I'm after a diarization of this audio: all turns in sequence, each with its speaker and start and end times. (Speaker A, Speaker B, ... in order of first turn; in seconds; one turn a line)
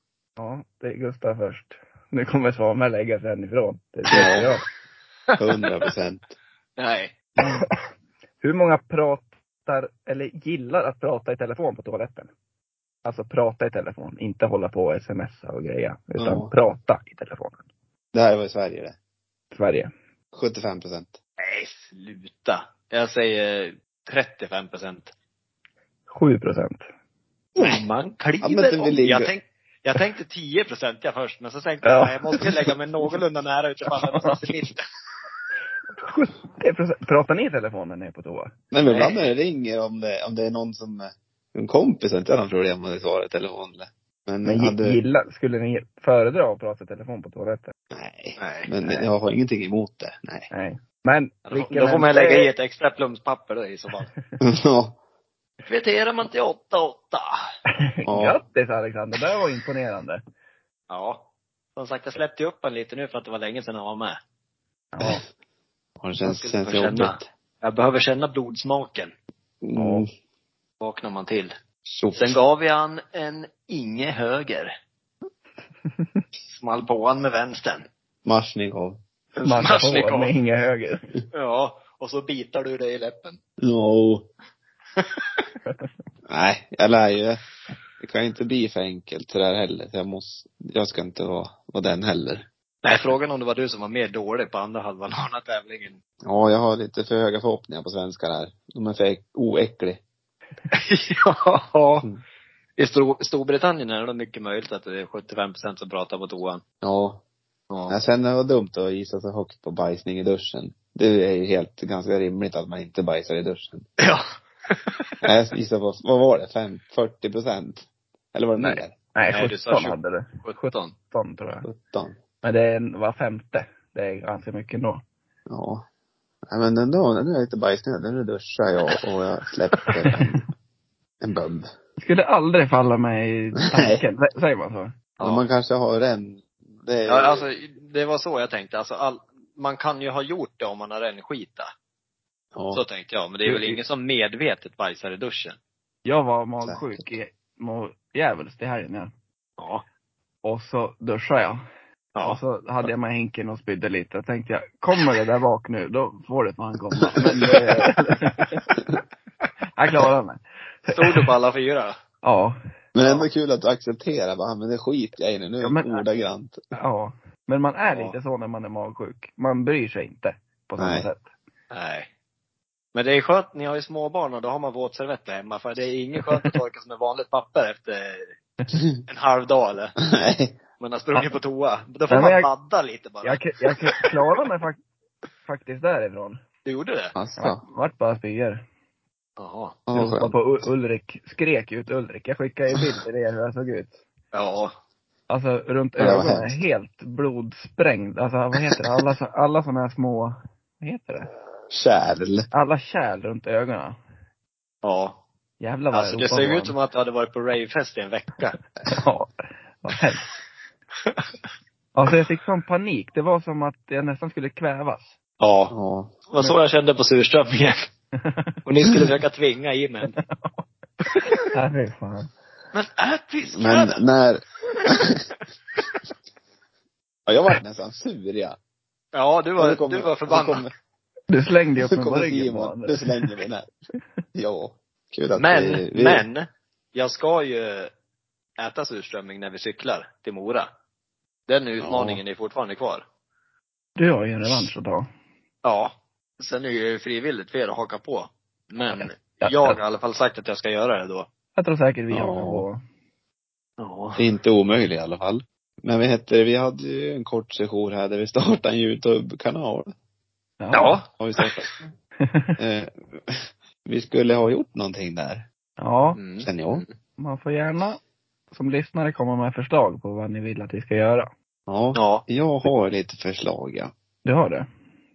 Speaker A: 0.4-4.6
Speaker B: 4.1-4.5
Speaker C: 5.3-5.9
Speaker B: 5.4-6.3
Speaker C: 6.8-7.2
Speaker A: 7.4-7.7
Speaker A: 8.4-12.3
Speaker A: 13.1-17.6
Speaker B: 16.2-16.5
Speaker B: 18.1-19.0
Speaker A: 19.5-19.9
Speaker B: 20.3-21.2
Speaker C: 21.4-25.1
Speaker A: 26.1-26.9
Speaker C: 27.6-34.8
Speaker B: 28.4-29.3
Speaker A: 31.8-32.5
Speaker A: 33.9-34.5
Speaker A: 36.0-38.5
Speaker B: 38.7-45.0
Speaker C: 38.9-39.3
Speaker A: 44.5-47.7
Speaker B: 47.9-50.5
Speaker C: 48.4-48.7
Speaker A: 50.5-52.5
Speaker C: 51.5-54.1
Speaker B: 54.4-55.0
Speaker C: 55.7-57.3
Speaker A: 58.0-60.2
Speaker B: 58.1-58.4
Speaker C: 60.9-61.2
Speaker C: 61.8-64.2
Speaker A: 64.9-65.2
Speaker B: 66.0-67.3
Speaker C: 66.2-69.1
Speaker B: 69.6-70.1
Speaker A: 69.8-70.0
Speaker C: 70.8-71.5
Speaker B: 71.9-72.4
Speaker C: 72.2-74.7
Speaker C: 76.5-77.9
Speaker B: 78.2-79.0
Speaker C: 79.4-80.3
Speaker A: 79.4-81.1
Speaker C: 81.3-83.4
Speaker B: 83.6-84.3
Speaker C: 85.0-85.4
Speaker B: 86.3-87.4
Speaker B: 88.0-92.5
Speaker C: 92.8-96.0
Speaker B: 96.2-100.0
Speaker C: 100.7-102.1
Speaker C: 102.8-106.6
Speaker B: 106.8-107.2
Speaker C: 107.7-108.0
Speaker B: 107.9-113.9
Speaker C: 114.0-115.1
Speaker B: 115.2-118.9
Speaker A: 118.6-121.7
Speaker C: 119.3-121.0
Speaker B: 121.7-122.2
Speaker A: 122.4-125.0
Speaker B: 125.5-125.8
Speaker B: 126.5-130.4
Speaker B: 131.2-131.7
Speaker A: 132.0-135.0
Speaker B: 133.6-134.0
Speaker C: 135.2-135.4
Speaker B: 135.2-137.4
Speaker C: 137.1-141.7
Speaker B: 142.6-142.8
Speaker C: 142.7-145.6
Speaker A: 143.5-143.8
Speaker A: 146.1-149.1
Speaker B: 146.6-147.0
Speaker C: 149.6-149.8
Speaker A: 150.4-151.6
Speaker C: 152.2-152.4
Speaker A: 152.2-158.6
Speaker B: 157.2-157.6
Speaker A: 159.8-161.3
Speaker C: 160.9-161.9
Speaker A: 162.2-162.6
Speaker B: 162.9-166.6
Speaker C: 163.0-163.3
Speaker A: 165.6-166.0
Speaker A: 166.8-171.2
Speaker B: 170.8-171.1
Speaker C: 171.7-172.1
Speaker C: 172.9-178.3
Speaker C: 179.1-180.0
Speaker B: 180.0-180.6
Speaker C: 180.8-184.1
Speaker A: 182.1-182.5
Speaker A: 183.2-184.8
Speaker A: 185.4-186.4
Speaker C: 186.7-187.2
Speaker B: 187.2-187.6
Speaker A: 187.4-188.6
Speaker C: 189.4-189.8
Speaker B: 189.9-190.4
Speaker A: 189.9-194.0
Speaker C: 194.3-194.7
Speaker A: 195.3-201.3
Speaker B: 196.0-196.6
Speaker B: 201.7-202.5
Speaker A: 202.5-204.0
Speaker C: 204.8-205.2
Speaker A: 205.6-206.8
Speaker C: 205.9-208.6
Speaker A: 208.9-210.2
Speaker A: 211.9-215.1
Speaker C: 215.4-215.7
Speaker B: 215.7-216.2
Speaker C: 216.3-217.8
Speaker A: 218.2-218.5
Speaker C: 218.7-220.2
Speaker A: 220.2-220.6
Speaker A: 221.5-222.3
Speaker C: 222.7-224.0
Speaker B: 223.5-225.2
Speaker B: 227.3-228.6
Speaker C: 229.1-230.7
Speaker B: 229.6-230.7
Speaker A: 231.3-233.3
Speaker B: 231.8-233.7
Speaker B: 234.3-236.2
Speaker C: 235.4-237.9
Speaker C: 238.6-240.7
Speaker C: 241.5-243.0
Speaker B: 241.8-242.2
Speaker A: 244.0-245.1
Speaker C: 245.6-251.3
Speaker A: 248.9-249.8
Speaker A: 251.6-252.8
Speaker B: 252.1-252.7
Speaker C: 253.8-254.2
Speaker B: 254.2-259.9
Speaker A: 260.6-261.0
Speaker C: 260.7-261.6
Speaker B: 261.2-261.9
Speaker A: 262.2-262.6
Speaker B: 262.6-265.4
Speaker A: 265.8-266.2
Speaker C: 266.2-266.9
Speaker B: 266.4-266.9
Speaker A: 267.2-268.0
Speaker A: 268.5-271.3
Speaker B: 271.7-273.9
Speaker C: 271.9-272.2
Speaker A: 274.2-274.7